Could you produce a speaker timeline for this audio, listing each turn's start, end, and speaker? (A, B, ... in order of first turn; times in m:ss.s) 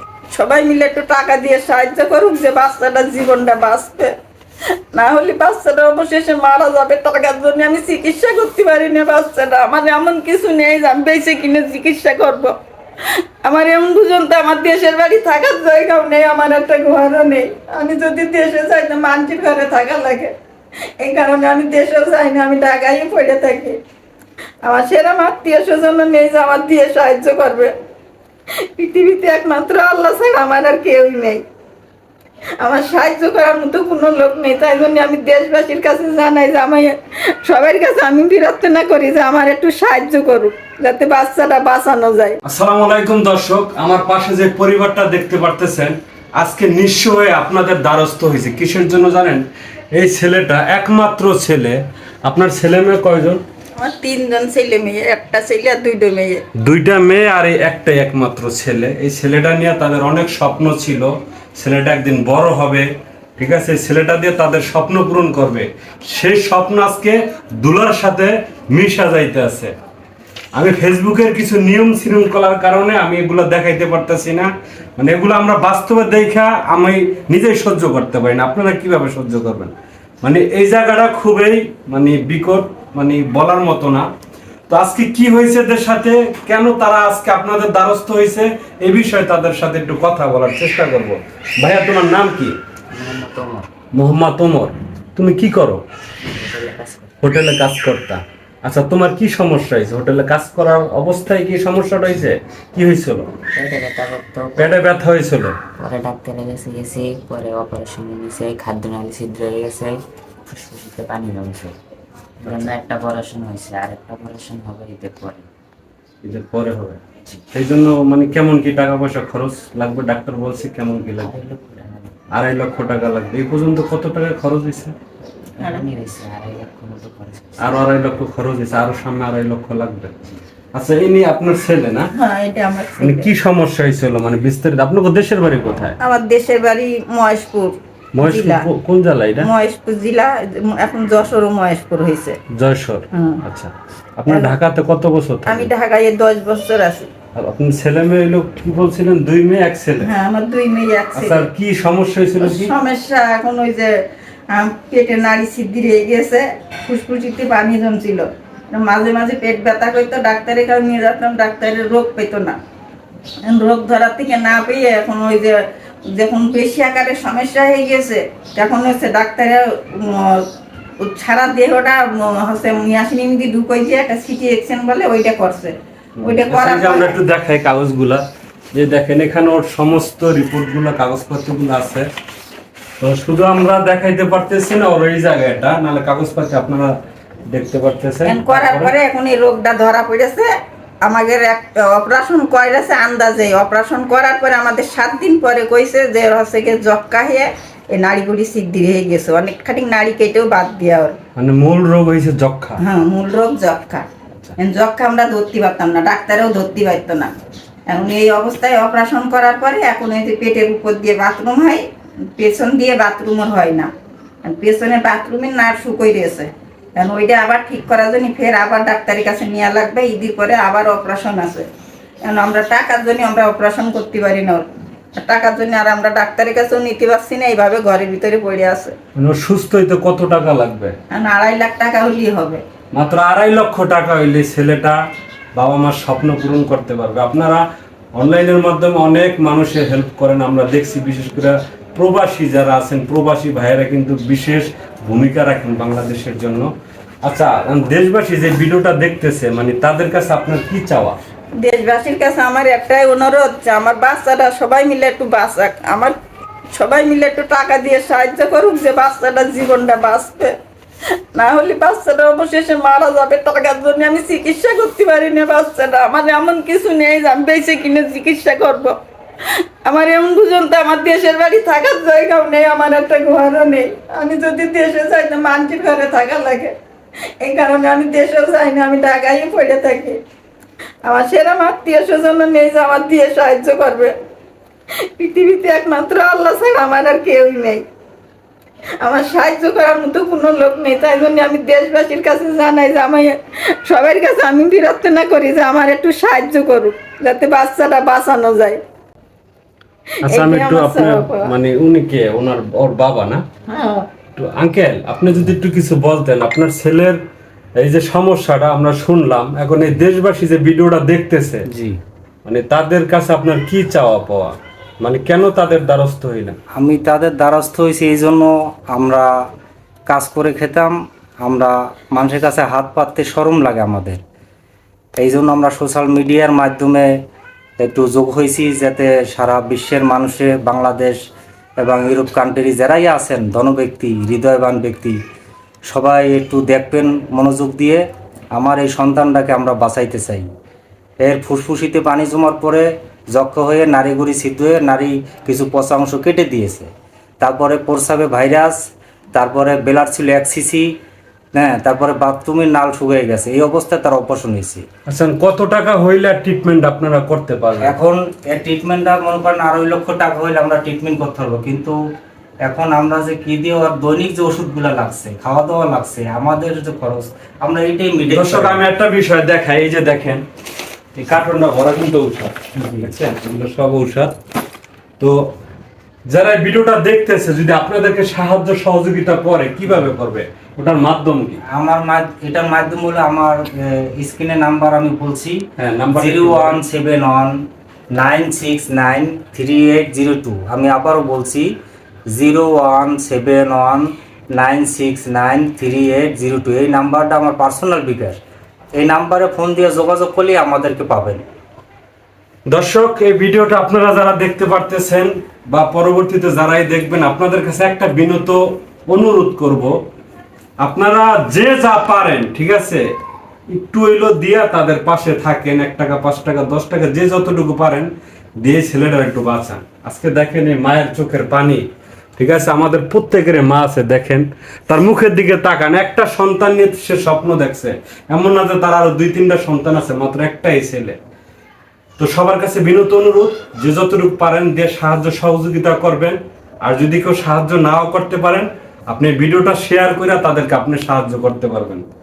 0:00.3-0:04.1 A
0:04.9-0:12.5 A
0:13.4-0:20.3 A
0:21.0-0:23.8 A
0:24.6-0:27.7 A
0:28.8-0:31.4 A
0:32.6-0:42.4 A
0:42.4-0:53.4 B
0:53.8-0:56.4 A
0:56.6-1:02.9 B
1:03.4-1:09.7 B
1:10.6-1:24.1 B
1:24.7-1:32.6 B
1:32.9-1:33.7 C
1:34.0-1:35.8 B
1:36.2-1:37.2 C
1:37.2-1:43.3 B
1:43.5-1:44.8 C
1:44.6-1:45.6 B
1:45.8-1:51.8 C
1:52.4-1:55.5 C
1:56.2-1:57.0 B
1:57.5-2:01.3 B
2:01.2-2:02.1 C
2:02.3-2:05.0 B
2:05.6-2:07.9 C
2:05.6-2:05.9 A
2:07.6-2:10.1 B
2:10.7-2:12.1 B
2:12.1-2:13.3 A
2:13.0-2:16.0 B
2:16.0-2:18.6 A
2:18.2-2:19.5 B
2:19.4-2:22.4 A
2:22.6-2:25.7 B
2:23.1-2:23.4 A
2:24.3-2:24.5 A
2:25.4-2:27.1 A
2:27.3-2:30.1 B
2:30.0-2:31.5 A
2:31.2-2:32.7 B
2:32.4-2:33.9 A
2:34.5-2:42.6 A
2:43.4-2:45.6 A
2:46.1-2:50.4 A
2:51.0-2:57.1 A
2:56.2-3:02.1 B
3:03.0-3:06.9 B
3:07.5-3:08.9 B
3:08.2-3:10.5 A
3:11.0-3:21.2 A
3:21.4-3:22.8 B
3:22.8-3:24.0 A
3:24.6-3:27.3 A
3:27.9-3:31.8 A
3:32.4-3:33.9 A
3:34.4-3:41.7 A
3:42.2-3:44.7 A
3:45.2-3:48.9 A
3:49.2-3:50.9 B
3:51.1-3:52.6 A
3:52.9-3:55.0 B
3:55.5-3:57.6 B
3:58.2-4:06.7 B
4:07.2-4:11.2 B
4:11.6-4:16.1 A
4:16.8-4:20.6 A
4:21.3-4:28.9 A
4:29.8-4:36.7 A
4:37.4-4:40.2 A
4:41.0-4:44.1 A
4:45.2-4:47.8 A
4:49.0-4:58.8 A
5:00.2-5:01.5 A
5:00.2-5:03.4 B
5:03.7-5:04.0 A
5:04.4-5:07.2 B
5:07.8-5:11.6 B
5:11.7-5:12.0 D
5:12.4-5:16.6 B
5:16.7-5:19.3 D
5:20.1-5:24.2 D
5:25.2-5:27.1 D
5:27.8-5:31.2 D
5:31.8-5:35.2 D
5:35.9-5:38.0 D
5:38.5-5:40.5 D
5:41.2-5:46.9 D
5:47.4-5:48.8 D
5:49.3-5:50.9 D
5:51.6-5:54.8 D
5:55.1-5:57.9 B
5:57.8-6:02.0 D
6:02.6-6:08.8 D
6:08.3-6:10.4 B
6:11.1-6:14.3 B
6:12.8-6:13.1 D
6:15.2-6:15.5 B
6:16.3-6:21.6 B
6:21.7-6:31.7 D
6:25.8-6:26.8 B
6:32.3-6:38.4 D
6:38.9-6:41.4 D
6:42.7-6:49.9 B
6:50.8-6:53.1 B
6:53.7-6:58.1 B
6:58.6-7:01.8 B
7:02.4-7:11.2 B
7:12.2-7:22.0 B